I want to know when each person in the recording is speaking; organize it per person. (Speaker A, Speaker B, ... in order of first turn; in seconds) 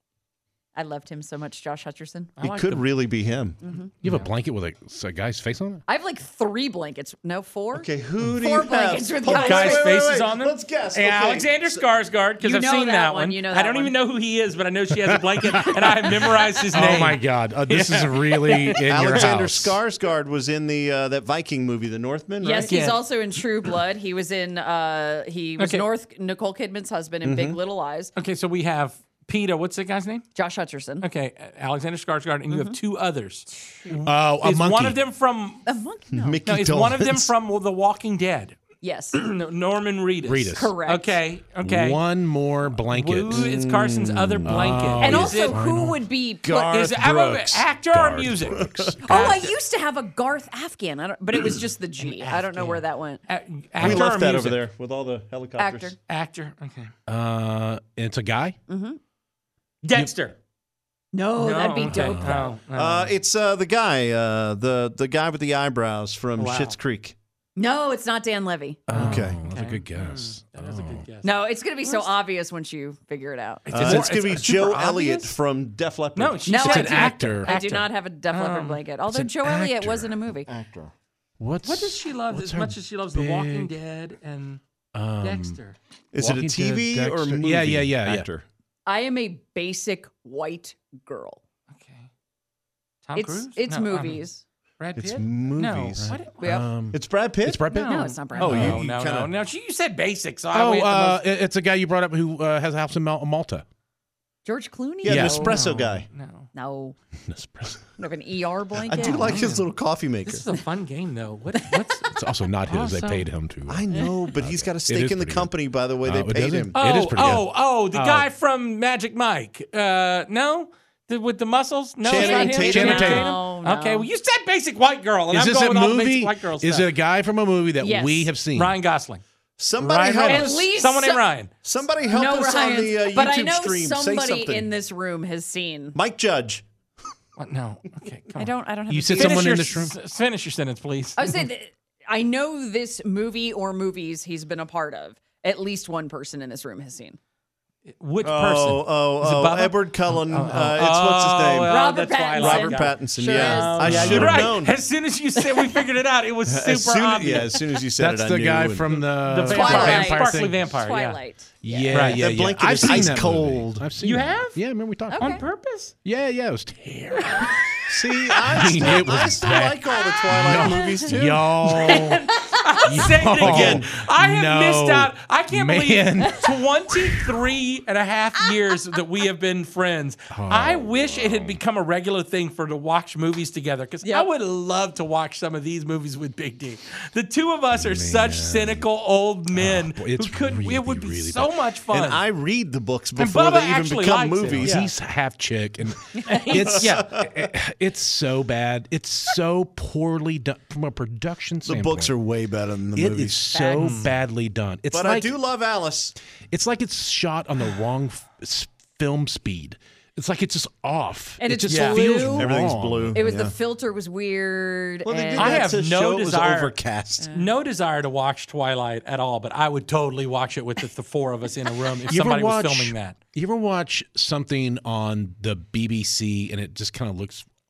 Speaker A: 0.8-2.4, 3.6-3.9, 5.9-10.0, 12.4-13.9, 22.4-28.1, 30.4-31.1, 32.5-32.8, 33.6-33.9, 35.7-36.4, 38.8-39.2, 40.5-41.2, 45.0-46.7, 49.0-53.2, 55.6-56.0, 58.7-59.0, 61.1-62.5, 67.6-68.8, 71.2-73.7, 76.5-80.5, 88.9-91.4, 93.2-94.4, 96.4-96.7, 97.8-98.8, 104.5-105.6, 106.5-107.0, 108.0-109.4, 122.1-124.1, 127.8-128.3, 130.2-131.3, 132.1-136.0, 138.4-139.5, 141.2-147.2, 151.7-154.2, 155.4-155.8, 159.5-162.0, 165.1-165.4, 170.5-171.1, 171.7-172.9, 196.2-196.6, 203.5-204.0, 211.4-212.5, 213.1-215.7, 217.2-217.5
Speaker B: 2.4-2.9, 4.0-4.3, 9.3-18.8, 22.7-23.0, 25.6-25.9, 28.1-30.2, 31.0-35.7, 36.5-38.6, 39.1-42.0, 42.7-45.6, 46.5-49.5, 52.0-54.6, 56.1-56.9, 59.8-60.4, 61.4-63.1, 66.4-66.8, 68.9-72.1, 73.7-75.4, 76.2-78.8, 81.6-84.6, 85.2-85.8, 91.7-92.1, 93.0-94.2, 94.8-96.4, 97.7-101.2, 105.3-106.5, 109.0-109.7, 110.2-112.1, 112.7-113.3, 116.8-126.9, 128.6-129.2, 129.8-131.5, 137.4-138.5, 139.2-141.2, 147.9-157.6, 159.2-161.2, 161.9-162.2, 164.0-164.6, 165.2-165.9, 171.9-192.2, 193.2-194.9, 196.3-197.1, 203.8-204.1, 211.7-212.0, 215.4-216.8, 217.3-223.2
Speaker C: 2.4-3.6, 7.7-11.9, 18.9-22.8, 27.2-27.6, 36.1-37.3, 43.3-44.7, 46.4-47.7, 48.5-49.3, 53.8-56.0, 62.7-67.2, 68.9-69.4, 73.7-76.6, 80.5-80.9, 86.1-88.5, 95.0-96.2, 96.9-97.7, 98.4-99.3, 105.0-106.1, 108.8-110.5, 113.7-116.8, 122.0-123.1, 129.6-130.7, 131.6-134.7, 135.9-136.7, 148.2-154.8, 156.5-159.1, 162.1-163.9, 167.9-171.5, 173.4-173.9, 191.9-194.8, 196.7-197.3, 201.7-203.5, 204.9-206.2, 212.3-213.6, 215.0-217.3
Speaker D: 4.0-5.8, 15.1-15.7, 16.7-19.8, 34.0-35.0, 40.2-40.7, 41.6-43.5, 44.5-46.0, 47.9-49.4, 57.1-58.6, 61.8-62.5, 68.9-71.0, 73.8-74.3, 76.6-77.5, 79.1-80.2, 81.4-83.7, 84.9-85.6, 86.2-88.3, 96.0-98.8, 100.5-103.7, 105.1-105.5, 107.3-107.8, 112.1-113.8, 114.4-118.3, 122.3-123.4, 125.3-128.8, 138.9-139.9, 153.8-154.6, 158.0-160.7, 161.6-165.4, 166.0-167.6, 168.3-172.3, 172.9-176.6, 180.3-181.6, 187.7-188.9, 189.5-191.5, 194.6-202.1, 202.9-205.3, 206.5-213.2, 222.1-227.5